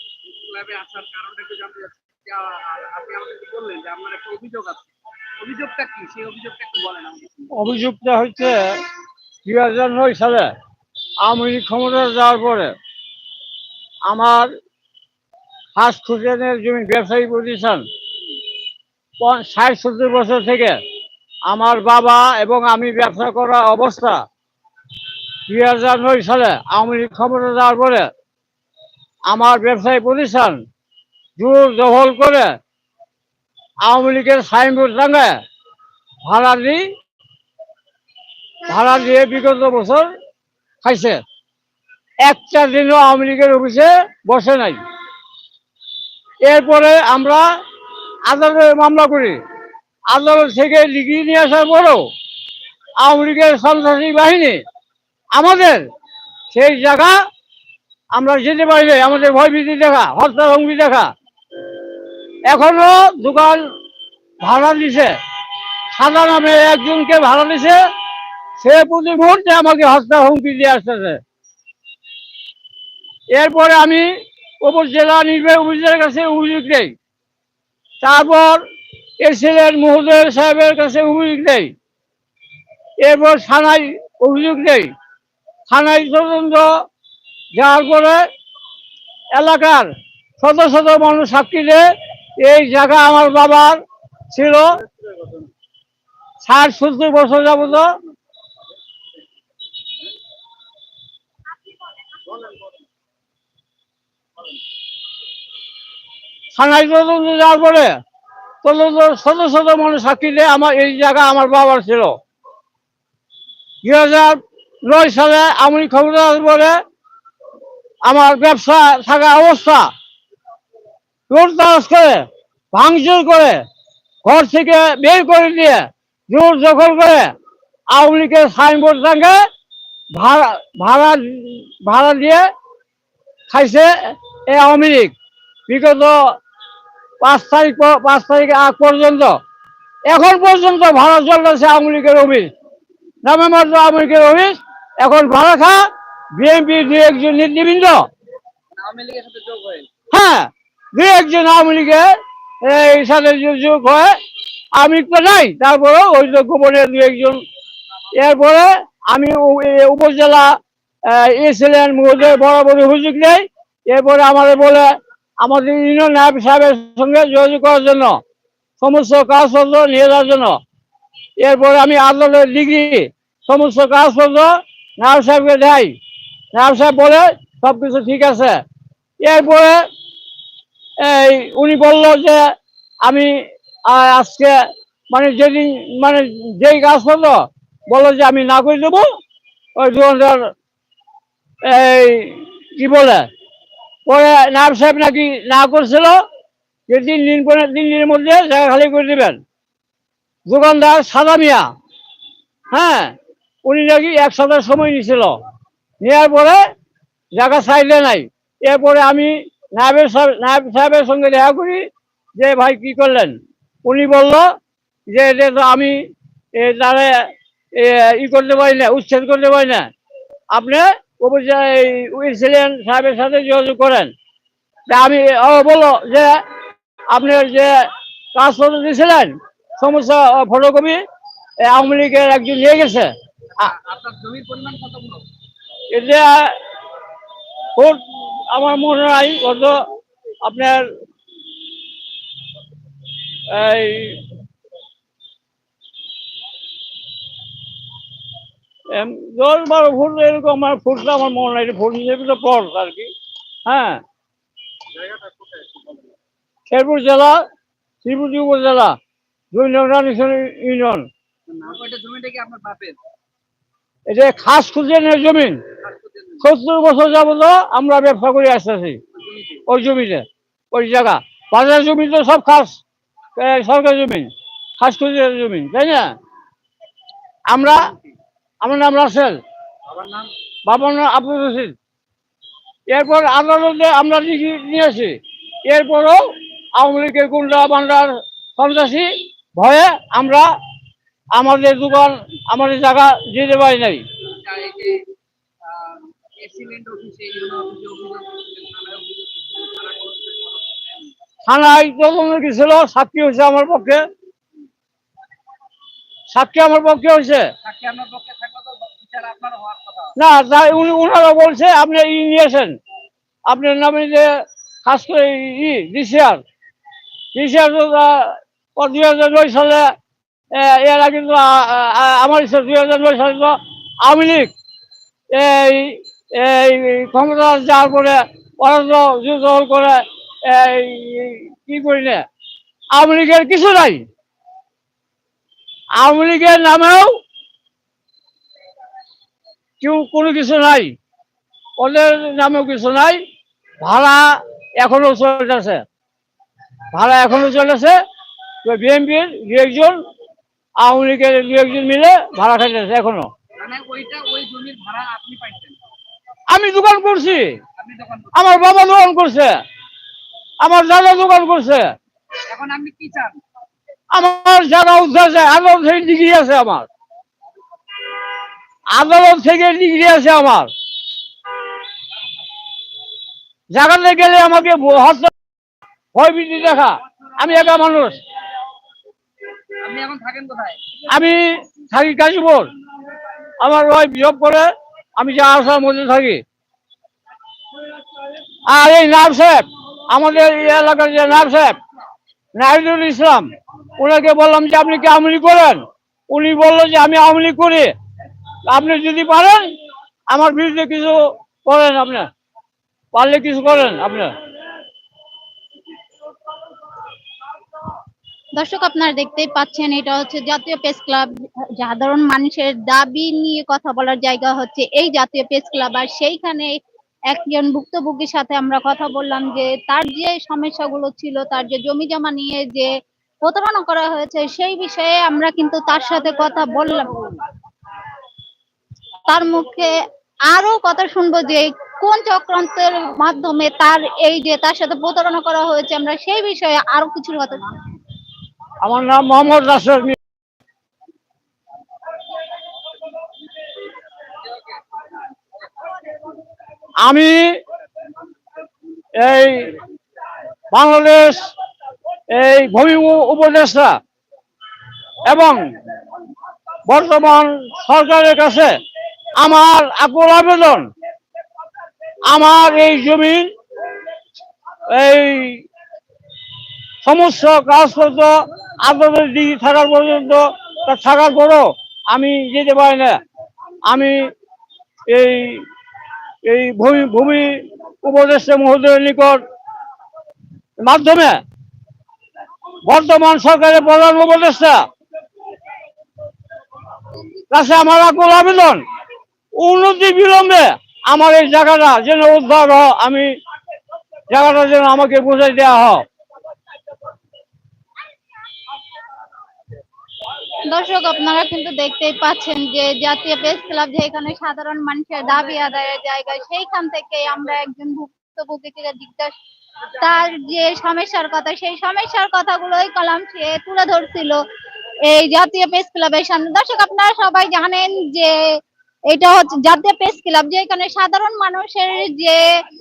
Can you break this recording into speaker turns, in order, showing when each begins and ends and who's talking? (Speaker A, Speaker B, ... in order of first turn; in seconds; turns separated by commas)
Speaker A: 0.3-4.9, Speaker A: 5.4-7.5, Speaker B: 7.5-8.8, Speaker B: 9.4-10.5, Speaker B: 11.2-12.7, Speaker B: 14.1-14.5, Speaker B: 15.8-17.8, Speaker B: 19.2-20.8, Speaker B: 21.5-24.2, Speaker B: 25.5-28.1, Speaker B: 29.3-30.6, Speaker B: 31.4-32.5, Speaker B: 33.8-35.3, Speaker B: 36.2-36.8, Speaker B: 38.7-40.1, Speaker B: 40.8-41.2, Speaker B: 42.2-44.8, Speaker B: 46.5-47.5, Speaker B: 48.3-49.4, Speaker B: 50.1-52.0, Speaker B: 53.0-54.6, Speaker B: 55.3-55.8, Speaker B: 56.5-57.2, Speaker B: 58.1-61.1, Speaker B: 62.5-63.6, Speaker B: 64.4-65.2, Speaker B: 65.9-67.8, Speaker B: 68.6-71.2, Speaker B: 73.3-74.0, Speaker B: 74.6-76.9, Speaker B: 78.0-78.6, Speaker B: 79.2-81.7, Speaker B: 83.0-84.9, Speaker B: 85.7-86.7, Speaker B: 87.5-88.2, Speaker B: 89.3-91.8, Speaker B: 92.4-93.8, Speaker B: 94.3-94.8, Speaker B: 96.4-97.9, Speaker B: 106.5-107.9, Speaker B: 108.6-112.1, Speaker B: 113.8-116.8, Speaker B: 118.0-119.9, Speaker B: 121.3-123.6, Speaker B: 124.2-127.3, Speaker B: 127.9-129.4, Speaker B: 130.1-132.4, Speaker B: 133.5-135.1, Speaker B: 135.7-136.3, Speaker B: 137.2-139.3, Speaker B: 140.1-142.5, Speaker B: 143.2-145.8, Speaker B: 146.4-148.0, Speaker A: 148.8-149.9, Speaker B: 150.1-152.1, Speaker B: 152.6-154.1, Speaker B: 154.8-157.4, Speaker B: 158.1-160.5, Speaker B: 161.0-164.9, Speaker B: 165.4-168.2, Speaker B: 168.8-170.6, Speaker B: 171.4-175.9, Speaker B: 176.5-178.6, Speaker B: 179.2-179.8, Speaker B: 181.0-182.4, Speaker B: 183.0-183.3, Speaker B: 183.9-184.6, Speaker B: 185.1-189.1, Speaker B: 189.8-190.5, Speaker B: 191.6-193.2, Speaker B: 194.1-196.2, Speaker B: 196.9-199.4, Speaker B: 200.5-201.7, Speaker B: 202.7-205.3, Speaker B: 206.0-206.6, Speaker B: 207.3-211.8, Speaker B: 212.4-214.4, Speaker B: 215.1-216.0, Speaker B: 216.6-219.9, Speaker B: 220.5-224.1, Speaker B: 224.9-226.4, Speaker B: 227.1-231.0, Speaker B: 231.6-233.7, Speaker A: 233.6-235.2, Speaker B: 235.9-236.5, Speaker B: 237.8-239.8, Speaker B: 240.4-240.8, Speaker B: 243.5-244.2, Speaker B: 248.9-253.1, Speaker B: 253.7-254.0, Speaker A: 255.0-256.0, Speaker B: 256.7-257.4, Speaker B: 258.0-258.9, Speaker B: 259.5-261.1, Speaker A: 261.5-263.0, Speaker B: 264.1-265.6, Speaker A: 265.8-266.4, Speaker B: 266.4-269.0, Speaker A: 269.2-269.6, Speaker B: 269.7-272.8, Speaker B: 273.4-276.1, Speaker B: 277.5-277.9, Speaker A: 277.6-278.1, Speaker B: 278.6-279.4, Speaker A: 279.9-280.3, Speaker B: 280.7-281.7, Speaker B: 282.9-286.2, Speaker B: 286.8-290.5, Speaker B: 291.3-294.0, Speaker A: 294.4-295.0, Speaker A: 295.6-301.1, Speaker B: 301.4-304.0, Speaker B: 306.3-307.4, Speaker A: 307.6-310.1, Speaker B: 310.1-312.7, Speaker B: 313.5-314.3, Speaker B: 314.8-316.4, Speaker B: 317.3-319.9, Speaker B: 320.5-324.5, Speaker B: 325.3-332.2, Speaker B: 332.9-334.0, Speaker B: 336.0-337.1, Speaker B: 339.8-340.9, Speaker B: 341.8-343.2, Speaker B: 343.8-345.8, Speaker B: 346.9-347.9, Speaker B: 348.6-350.0, Speaker B: 350.8-353.3, Speaker A: 353.6-355.8, Speaker B: 356.5-357.5, Speaker A: 357.8-358.3, Speaker B: 358.3-359.6, Speaker B: 360.6-361.9, Speaker A: 362.4-363.4, Speaker B: 364.1-366.9, Speaker B: 368.9-370.7, Speaker B: 373.7-375.3, Speaker B: 376.1-378.2, Speaker A: 379.8-380.8, Speaker B: 381.1-382.7, Speaker B: 383.6-386.4, Speaker B: 388.7-391.8, Speaker B: 392.6-397.9, Speaker B: 398.7-399.7, Speaker B: 400.3-402.3, Speaker B: 403.1-404.3, Speaker C: 408.6-416.8, Speaker C: 417.3-422.9, Speaker C: 423.4-427.4, Speaker C: 429.3-429.9, Speaker C: 430.5-437.7, Speaker B: 438.8-440.2, Speaker B: 447.0-447.5, Speaker B: 449.1-449.8, Speaker B: 450.7-451.5, Speaker B: 452.3-454.0, Speaker B: 455.3-455.7, Speaker B: 456.9-458.7, Speaker B: 459.4-460.9, Speaker B: 462.3-463.5, Speaker B: 464.9-465.6, Speaker B: 467.0-473.2, Speaker B: 473.8-474.3, Speaker B: 475.1-475.6, Speaker B: 476.4-479.4, Speaker B: 480.8-481.4, Speaker B: 482.9-484.8, Speaker B: 487.5-488.8, Speaker B: 489.6-493.3, Speaker B: 494.3-496.0, Speaker C: 500.6-509.4, Speaker C: 509.9-514.4, Speaker C: 515.0-518.5, Speaker C: 519.1-522.5